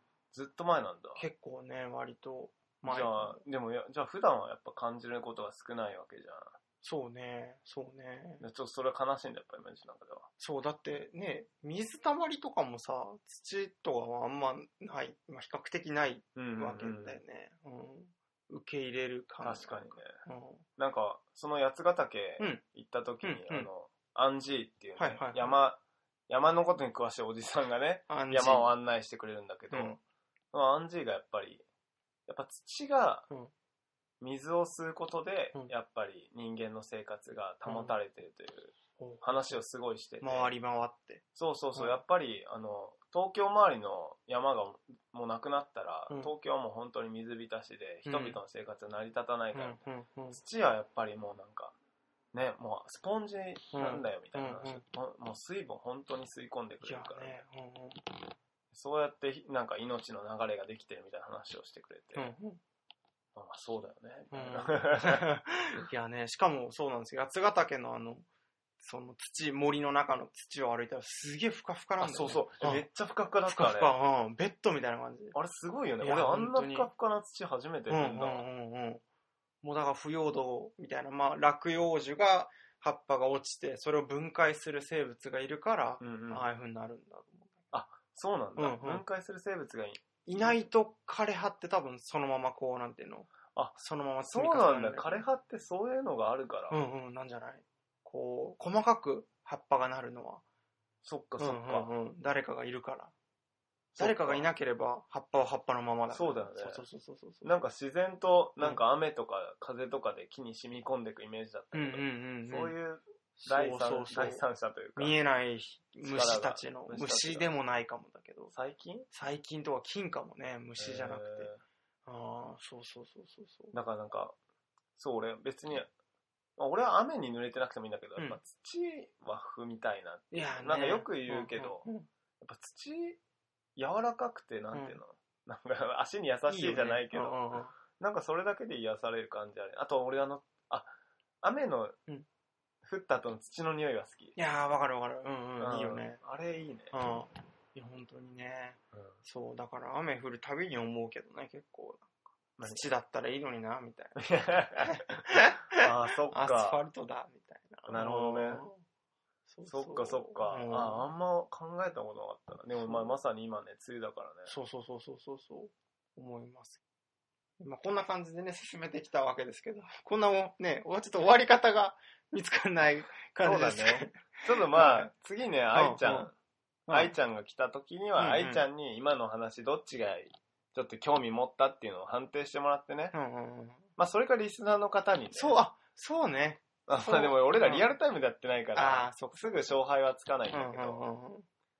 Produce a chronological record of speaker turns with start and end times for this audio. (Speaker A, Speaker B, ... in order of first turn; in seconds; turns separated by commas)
Speaker A: 0.3-1.2, Speaker B: 1.2-3.4, Speaker A: 2.8-6.5, Speaker B: 6.8-8.4, Speaker A: 8.4-10.3, Speaker B: 10.4-20.6, Speaker A: 16.4-17.2, Speaker A: 19.4-20.1, Speaker A: 20.8-30.0, Speaker B: 23.2-23.7, Speaker B: 25.0-25.6, Speaker B: 28.1-28.7, Speaker B: 29.7-30.0, Speaker A: 30.5-31.6, Speaker A: 32.3-33.3, Speaker A: 34.2-40.5, Speaker B: 37.6-37.9, Speaker B: 39.0-39.2, Speaker B: 40.2-41.2, Speaker A: 41.3-49.8, Speaker B: 48.0-48.4, Speaker B: 49.5-50.4, Speaker A: 50.3-51.7, Speaker A: 52.3-57.4, Speaker B: 53.7-54.8, Speaker B: 56.8-58.1, Speaker A: 58.7-62.3, Speaker B: 62.1-62.6, Speaker A: 63.3-65.3, Speaker B: 64.3-68.2, Speaker B: 68.8-72.8, Speaker A: 72.0-73.9, Speaker B: 73.5-75.4, Speaker A: 75.3-78.4, Speaker B: 76.0-76.9, Speaker B: 77.9-79.0, Speaker B: 79.6-87.6, Speaker A: 86.0-86.5, Speaker A: 87.7-90.6, Speaker B: 88.6-89.0, Speaker B: 90.2-95.2, Speaker A: 93.5-96.8, Speaker B: 96.7-100.4, Speaker A: 101.0-101.9, Speaker B: 101.4-103.1, Speaker A: 103.9-104.5, Speaker B: 104.0-107.5, Speaker A: 106.1-106.8, Speaker A: 107.4-115.1, Speaker B: 111.7-112.7, Speaker B: 113.4-114.4, Speaker B: 115.0-118.5, Speaker A: 116.0-117.5, Speaker A: 118.5-119.1, Speaker B: 119.1-121.5, Speaker A: 120.8-121.6, Speaker B: 122.0-123.7, Speaker A: 123.7-124.3, Speaker A: 125.0-125.9, Speaker A: 126.6-131.8, Speaker B: 130.3-132.1, Speaker A: 132.4-133.2, Speaker A: 133.8-140.9, Speaker B: 134.7-135.0, Speaker B: 136.5-137.7, Speaker A: 141.4-142.0, Speaker A: 142.8-144.3, Speaker B: 144.3-146.2, Speaker A: 145.6-146.9, Speaker B: 146.9-152.1, Speaker A: 152.6-152.8, Speaker B: 152.6-154.2, Speaker A: 154.2-155.0, Speaker B: 154.8-158.8, Speaker A: 155.7-156.8, Speaker A: 157.9-158.6, Speaker B: 159.5-161.1, Speaker A: 159.7-164.5, Speaker B: 162.8-163.2, Speaker B: 164.5-166.8, Speaker B: 167.6-175.1, Speaker A: 173.4-176.3, Speaker B: 175.7-176.3, Speaker B: 176.9-177.1, Speaker A: 176.9-183.2, Speaker B: 178.2-178.7, Speaker B: 183.1-183.9, Speaker A: 184.0-185.6, Speaker B: 185.3-187.9, Speaker A: 186.9-191.0, Speaker B: 188.7-189.8, Speaker B: 190.5-191.4